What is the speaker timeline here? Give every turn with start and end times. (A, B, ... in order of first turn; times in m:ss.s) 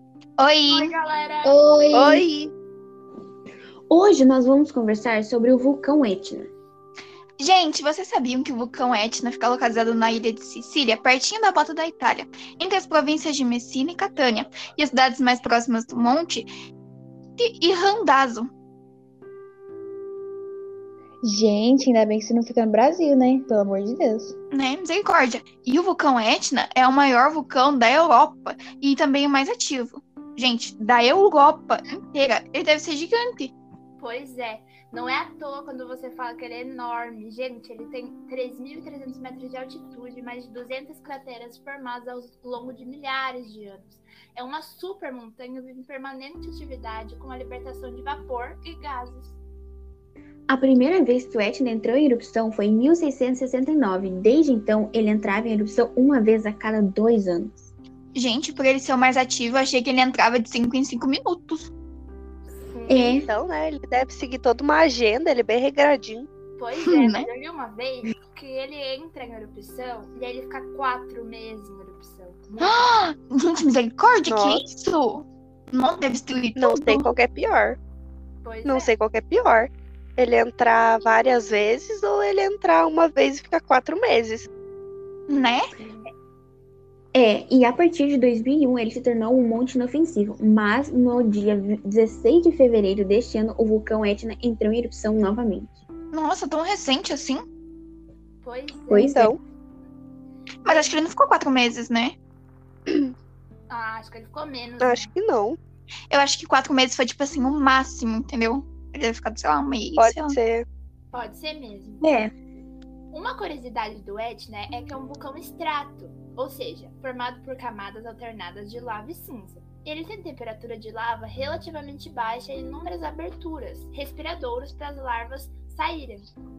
0:00.4-0:00.9 A
0:00.7-0:01.6 B
0:01.8-0:02.1 C
0:01.9-0:02.5 D
0:03.9-0:06.5 E
0:07.4-0:16.5 A
0:17.4-0:18.5 A
0:21.2-0:24.3 C
0:24.5-0:33.5 A
0:34.0-0:49.4 B
0:50.5-0:57.7 E
0:58.1-1:01.7 A
1:02.4-1:03.1 B
1:02.9-1:03.3 E
1:03.0-1:06.3 D
1:06.6-1:12.9 B
1:06.8-1:07.2 A
1:12.6-1:17.1 A
1:14.2-1:14.7 D
1:16.6-1:17.8 D
1:18.4-1:18.9 B
1:18.6-1:24.5 D
1:25.3-1:25.7 A
1:27.1-1:35.8 E
1:36.1-1:37.4 A
1:38.4-1:39.3 B
1:38.9-1:39.3 E
1:39.1-1:39.3 D
1:40.6-1:42.1 A
1:40.7-1:41.0 B
1:43.7-1:45.1 B
1:44.8-1:45.6 D
1:46.1-1:50.4 A
1:50.0-1:50.6 D
1:51.1-1:52.0 B
1:52.0-1:52.3 E
1:53.1-2:06.3 B